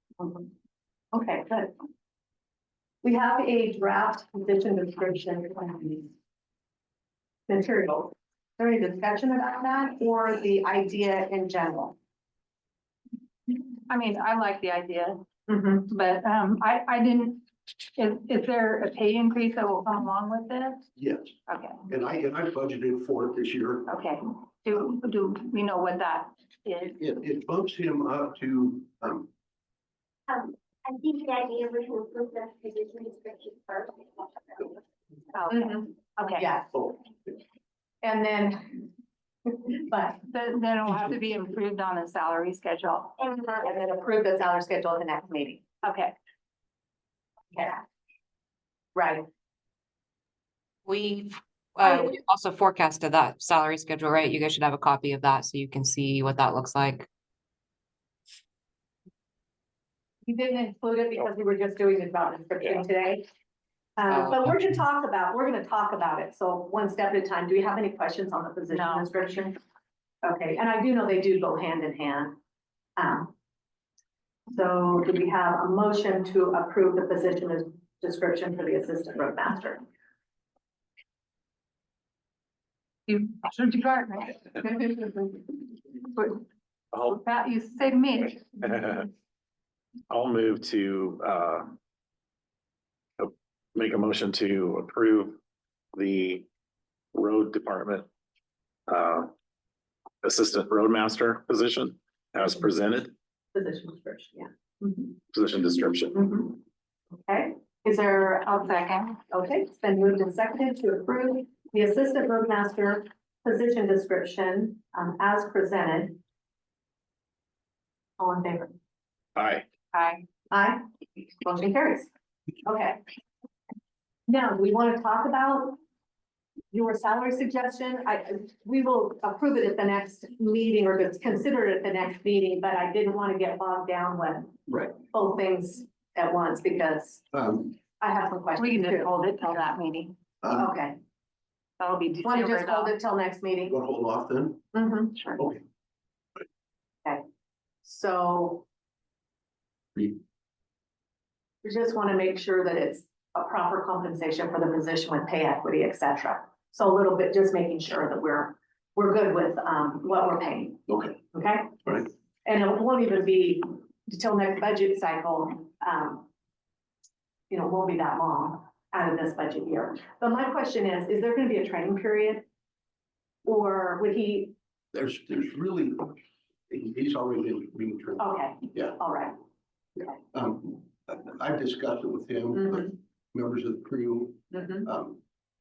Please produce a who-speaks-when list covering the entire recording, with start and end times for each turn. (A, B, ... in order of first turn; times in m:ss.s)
0:00.2-0:00.5 A
0:01.1-0:01.7 A
0:03.0-0:06.1 A
0:07.5-0:12.0 A
0:13.5-0:15.2 B
0:15.5-0:15.9 A
0:15.9-0:17.4 B
0:18.0-0:20.8 B
0:21.0-0:23.9 C
0:21.5-0:21.8 B
0:23.9-0:27.0 B
0:27.0-0:29.3 C
0:30.3-0:34.8 D
0:35.3-0:36.5 B
0:35.5-0:36.8 A
0:38.0-0:38.9 A
0:39.5-0:40.2 A
0:40.2-0:43.2 B
0:43.2-0:45.7 A
0:45.8-0:46.1 B
0:47.5-0:47.8 A
0:49.0-0:49.3 A
0:50.9-0:57.1 E
1:00.3-1:03.3 A
1:04.0-1:09.6 A
1:04.0-1:04.5 E
1:08.7-1:09.1 B
1:10.2-1:12.4 A
1:13.0-1:13.3 A
1:14.5-1:19.8 A
1:23.1-1:26.4 B
1:26.9-1:27.2 F
1:27.1-1:28.5 B
1:28.6-1:29.1 F
1:30.1-1:31.7 F
1:33.2-1:35.4 F
1:36.0-1:36.5 F
1:37.1-1:38.1 F
1:38.9-1:39.3 F
1:40.2-1:43.1 F
1:43.6-1:45.1 A
1:45.3-1:46.3 F
1:46.2-1:46.6 A
1:47.3-1:48.5 A
1:48.4-1:49.2 B
1:49.3-1:56.2 A
1:58.2-1:58.8 A
1:59.4-1:59.7 F
1:59.9-2:00.2 B
2:00.5-2:00.8 A
2:01.4-2:02.1 A
2:02.7-2:03.0 A
2:04.3-2:05.8 A
2:06.7-2:19.2 A
2:14.7-2:15.0 C
2:17.3-2:17.7 C
2:18.6-2:20.2 B
2:20.4-2:20.7 C
2:20.5-2:21.0 A
2:21.8-2:23.0 B
2:22.2-2:23.8 A
2:23.7-2:24.7 C
2:24.7-2:25.1 A
2:25.2-2:25.4 B
2:27.8-2:28.6 A
2:31.6-2:41.9 A
2:40.9-2:41.2 C
2:42.4-2:46.3 A
2:47.5-2:52.5 A
2:53.5-2:54.6 A
2:54.9-2:56.2 C
2:56.7-2:59.0 C
2:58.2-2:59.4 A
3:00.3-3:05.2 C
3:02.6-3:02.8 A
3:04.5-3:04.9 A